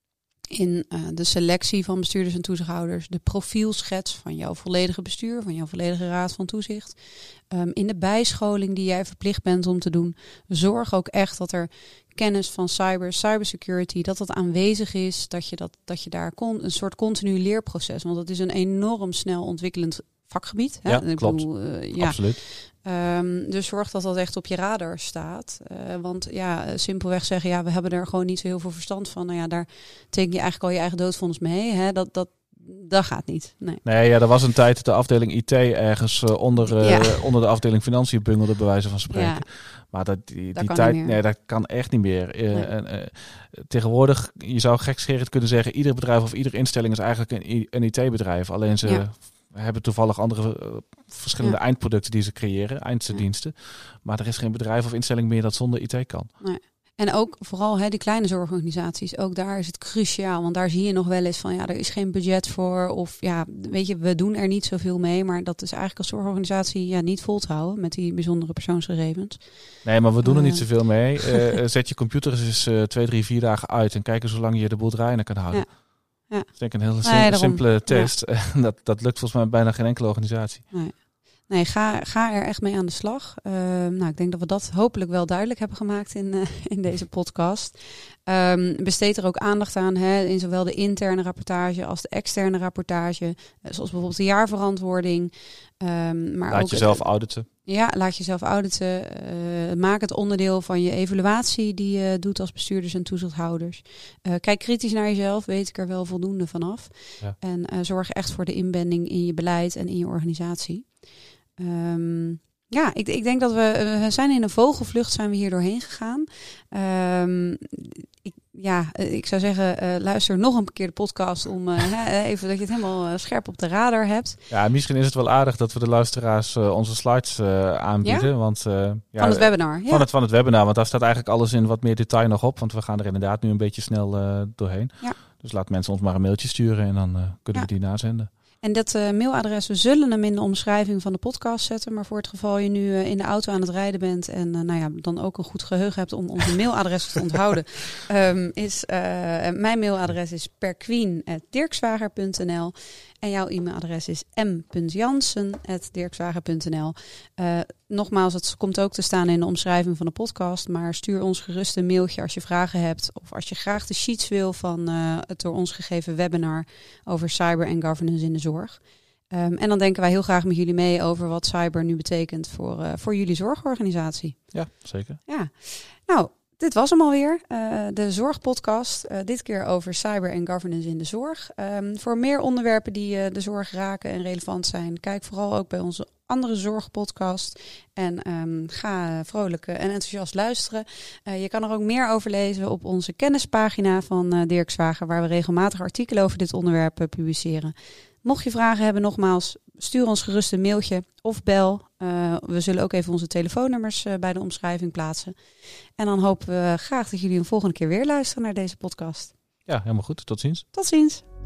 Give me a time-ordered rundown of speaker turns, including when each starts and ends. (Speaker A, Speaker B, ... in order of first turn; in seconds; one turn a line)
Speaker A: 0.5-33.8
Speaker B: 20.9-22.4
Speaker B: 33.8-56.3
Speaker A: 36.8-37.2
Speaker A: 39.1-39.5
Speaker A: 40.5-41.2
Speaker A: 56.4-71.3
Speaker B: 69.8-80.7
Speaker A: 75.5-78.1
Speaker A: 80.7-124.4
Speaker B: 96.5-97.5
Speaker B: 124.5-138.3
Speaker A: 128.0-128.3
Speaker A: 129.2-130.1
Speaker A: 138.6-174.7
Speaker B: 174.5-175.2
Speaker A: 175.2-205.4
Speaker A: 206.0-209.3
Speaker B: 209.7-210.6
Speaker A: 210.7-211.2